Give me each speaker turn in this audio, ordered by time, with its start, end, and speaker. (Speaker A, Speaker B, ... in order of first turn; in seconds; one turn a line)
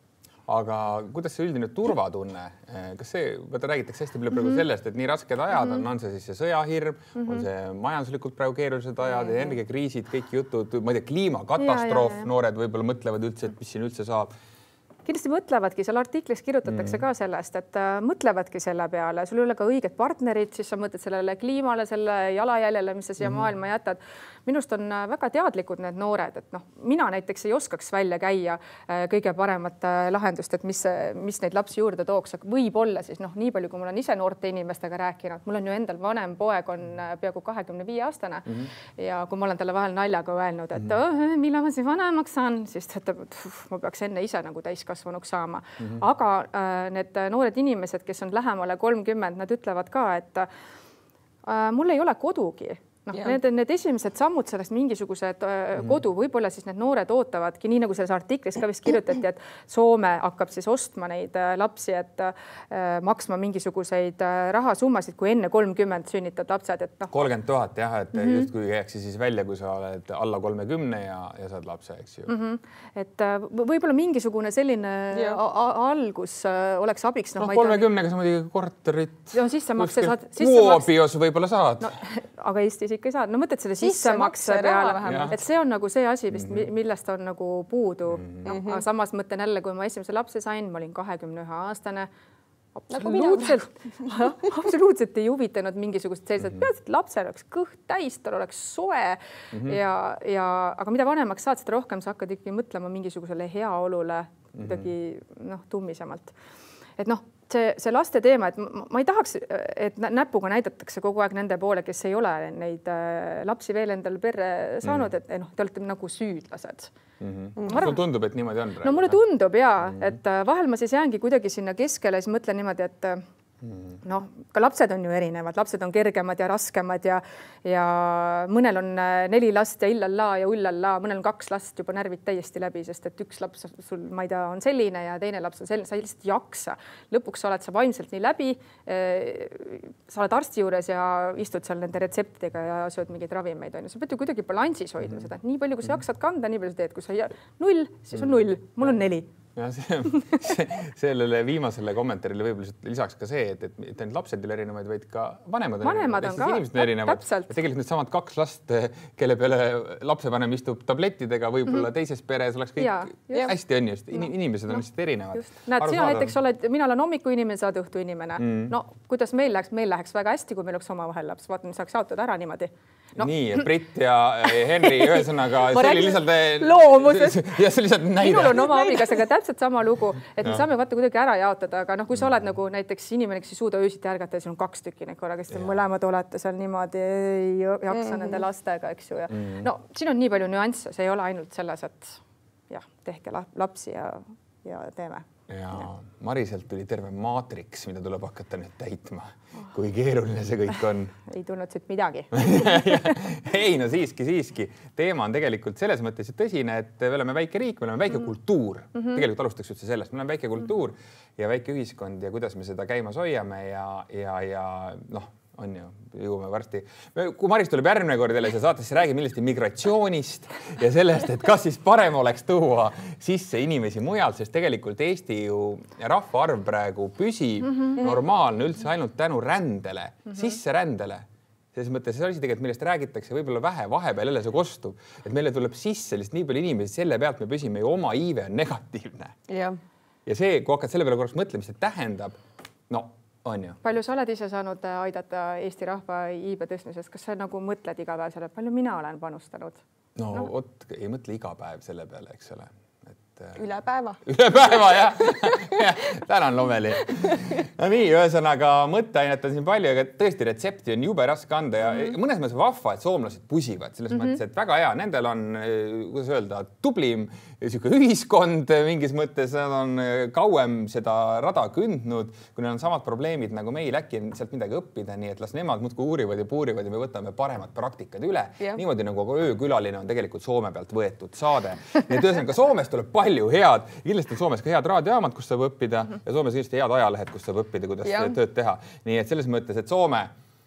Speaker A: 0.5-14.3
Speaker B: 7.2-7.5
Speaker B: 11.6-12.3
Speaker B: 15.1-50.5
Speaker A: 16.7-17.0
Speaker A: 23.2-23.5
Speaker B: 51.5-67.2
Speaker A: 67.1-72.3
Speaker B: 68.2-68.4
Speaker B: 72.3-77.9
Speaker C: 75.1-75.4
Speaker A: 77.4-82.0
Speaker B: 79.3-80.9
Speaker B: 81.8-92.1
Speaker C: 83.8-85.4
Speaker A: 85.0-85.3
Speaker A: 86.3-86.7
Speaker A: 88.2-88.5
Speaker C: 88.5-88.8
Speaker B: 92.8-106.3
Speaker C: 92.9-93.6
Speaker A: 99.5-99.8
Speaker A: 104.6-104.9
Speaker B: 107.0-116.9
Speaker A: 114.8-115.1
Speaker A: 117.2-119.2
Speaker B: 117.7-118.0
Speaker B: 118.8-123.2
Speaker A: 123.6-124.0
Speaker B: 124.0-149.3
Speaker A: 149.6-166.3
Speaker B: 150.1-150.4
Speaker B: 155.8-157.6
Speaker B: 162.8-163.5
Speaker B: 165.3-173.3
Speaker A: 168.4-168.7
Speaker A: 173.2-178.8
Speaker B: 174.8-177.6
Speaker B: 178.2-195.3
Speaker A: 185.5-185.8
Speaker C: 187.9-188.4
Speaker A: 189.3-189.7
Speaker A: 195.5-201.1
Speaker B: 201.2-203.2
Speaker A: 202.3-239.4
Speaker C: 239.5-239.8
Speaker A: 240.3-242.4
Speaker A: 242.9-243.8
Speaker B: 243.8-249.8
Speaker A: 250.2-253.6
Speaker C: 253.6-254.2
Speaker A: 254.2-290.3
Speaker C: 255.4-255.8
Speaker C: 257.1-257.5
Speaker C: 288.1-288.4